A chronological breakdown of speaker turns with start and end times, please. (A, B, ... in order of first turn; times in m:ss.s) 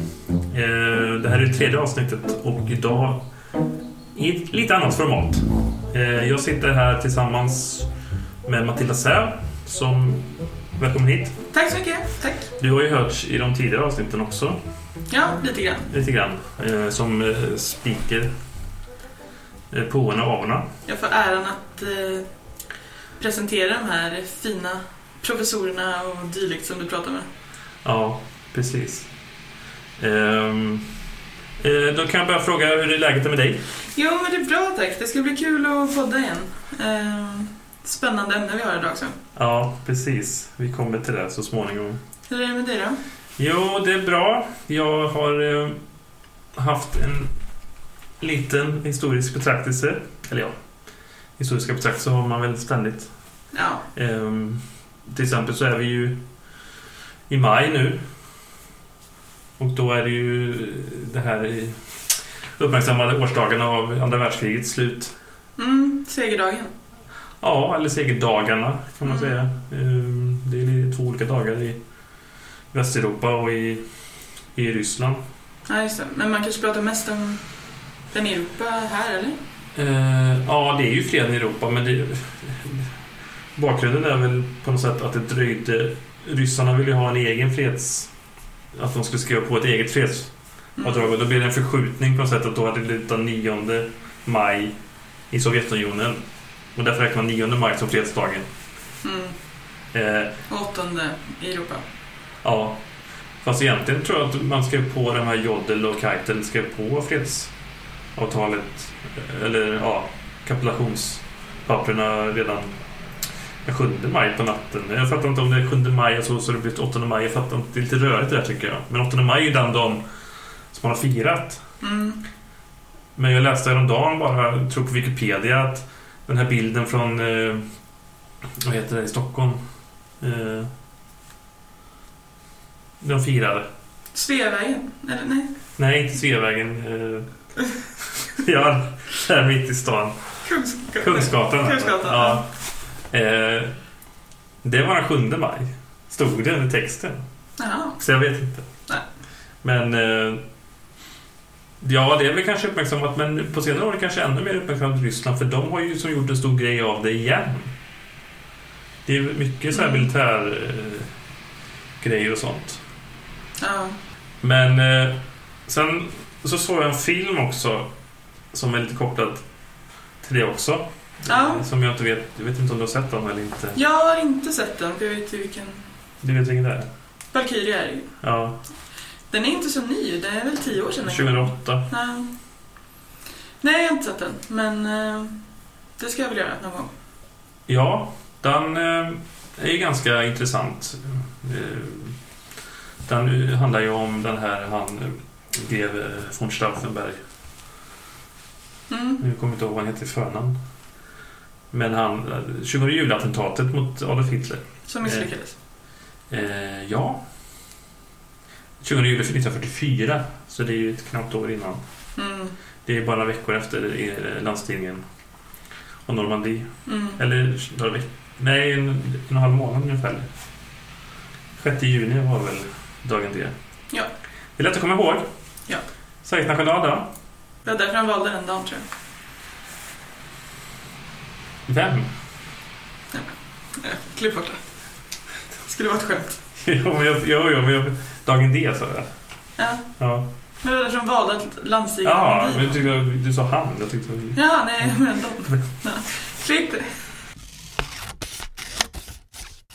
0:00.5-0:03.3 A
0:04.1-0:07.9 A
0:08.5-0:11.4 A
0:11.5-0:12.5 B
0:12.6-0:14.6 A
0:15.1-0:15.9 B
0:15.9-0:18.3 A
0:19.7-0:20.7 A
0:20.9-0:22.3 B
0:23.2-0:27.3 B
0:27.8-0:29.1 A
0:30.0-0:30.9 A
0:31.6-0:33.6 A
0:33.9-0:39.2 B
0:39.4-0:42.0 A
0:42.3-0:43.0 B
0:43.4-0:45.8 A
0:46.6-0:47.3 A
0:48.2-0:50.5 A
0:51.4-0:53.1 A
0:53.5-0:53.8 B
0:53.9-0:56.2 A
0:57.3-0:58.0 A
0:59.6-1:01.8 A
1:02.6-1:05.2 A
1:05.6-1:06.7 B
1:07.4-1:11.8 A
1:09.1-1:09.4 B
1:12.7-1:13.8 A
1:14.6-1:15.2 A
1:15.7-1:17.4 B
1:18.1-1:19.4 B
1:19.8-1:22.9 A
1:23.6-1:28.1 A
1:28.7-1:34.8 A
1:30.8-1:31.1 B
1:35.3-1:36.2 A
1:36.8-1:38.5 A
1:39.0-1:39.4 B
1:39.9-1:40.4 A
1:40.5-1:41.8 B
1:42.4-1:42.8 A
1:43.4-1:47.5 A
1:48.2-1:52.7 A
1:53.6-2:00.0 A
2:00.7-2:01.6 A
2:01.8-2:02.2 B
2:03.2-2:07.6 A
2:08.6-2:09.6 A
2:10.2-2:10.7 A
2:13.0-2:13.7 A
2:14.1-2:15.5 B
2:15.8-2:17.3 A
2:18.1-2:20.2 A
2:20.4-2:22.4 B
2:21.0-2:22.5 A
2:23.1-2:23.8 A
2:24.6-2:27.2 A
2:27.6-2:28.0 B
2:28.0-2:28.7 A
2:29.6-2:30.4 A
2:31.8-2:37.7 A
2:39.1-2:41.1 A
2:39.7-2:40.1 B
2:42.0-2:42.8 A
2:43.6-2:44.0 B
2:44.4-2:47.9 A
2:48.5-2:49.4 A
2:50.2-2:53.8 A
2:51.3-2:51.6 B
2:53.8-2:55.9 B
2:56.2-2:56.9 A
2:57.3-2:58.1 B
2:58.2-2:58.6 A
2:59.3-3:02.3 B
3:01.1-3:01.9 A
3:03.6-3:05.4 B
3:06.0-3:06.9 B
3:07.7-3:12.2 A
3:13.1-3:17.2 A
3:18.9-3:19.2 B
3:19.2-3:20.6 A
3:21.7-3:25.3 A
3:24.9-3:25.5 B
3:26.3-3:27.2 A
3:28.8-3:31.8 A
3:32.2-3:32.5 B
3:32.9-3:35.0 A
3:36.1-3:40.3 A
3:36.9-3:37.2 B
3:41.6-3:43.6 A
3:44.6-3:45.3 A
3:46.2-3:47.1 A
3:47.6-3:48.9 B
3:51.7-3:52.1 A
3:53.1-3:54.6 B
3:55.6-3:56.4 B
3:56.6-3:59.1 A
3:59.6-3:59.9 B
4:00.0-4:00.3 A
4:00.6-4:02.8 B
4:02.0-4:05.0 A
4:04.4-4:06.9 B